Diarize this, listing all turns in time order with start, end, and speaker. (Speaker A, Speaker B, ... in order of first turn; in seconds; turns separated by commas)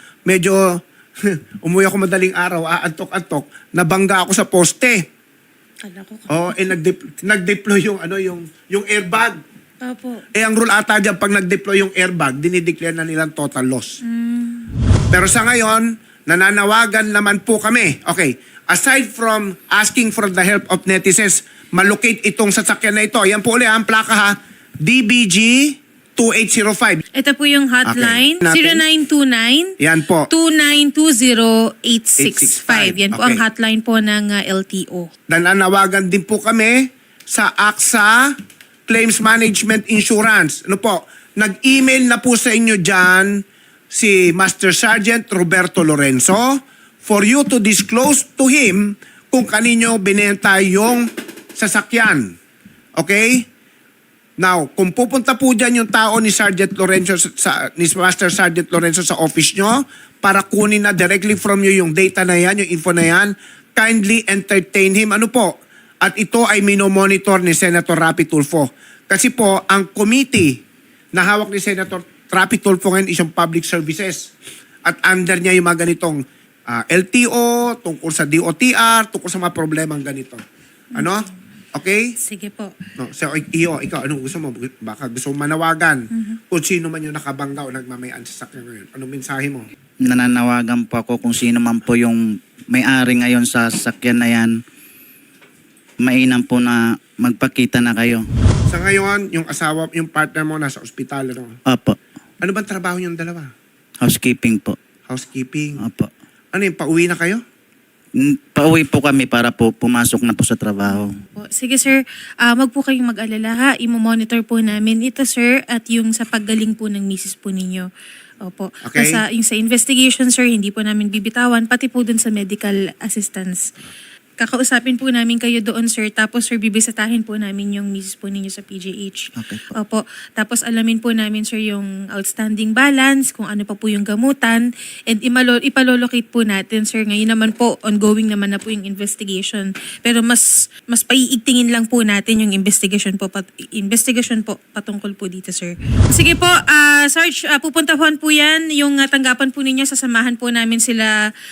Speaker A: 0.2-5.0, Speaker B: 5.8-6.5, Speaker A: 6.3-9.4, Speaker B: 9.8-10.2, Speaker A: 10.3-14.0, Speaker B: 14.0-14.7, Speaker A: 15.1-27.0, Speaker B: 27.1-29.7, Speaker A: 27.8-28.8, Speaker A: 29.8-30.3, Speaker B: 30.3-35.1, Speaker A: 32.2-33.4, Speaker A: 35.3-38.3, Speaker A: 38.9-52.3, Speaker A: 53.0-53.5, Speaker A: 54.4-70.6, Speaker A: 71.1-74.3, Speaker A: 74.8-80.4, Speaker B: 80.9-81.3, Speaker A: 81.0-82.1, Speaker B: 82.2-82.8, Speaker A: 83.0-89.6, Speaker B: 86.1-86.4, Speaker C: 90.0-94.5, Speaker C: 96.0-98.2, Speaker A: 98.7-101.5, Speaker C: 101.7-102.0, Speaker A: 102.4-103.5, Speaker C: 104.0-104.8, Speaker A: 105.1-105.8, Speaker C: 105.8-106.1, Speaker A: 106.5-107.4, Speaker C: 108.1-111.1, Speaker B: 110.9-117.9, Speaker B: 118.4-123.7, Speaker A: 118.8-119.2, Speaker B: 124.4-151.1, Speaker C: 129.4-129.7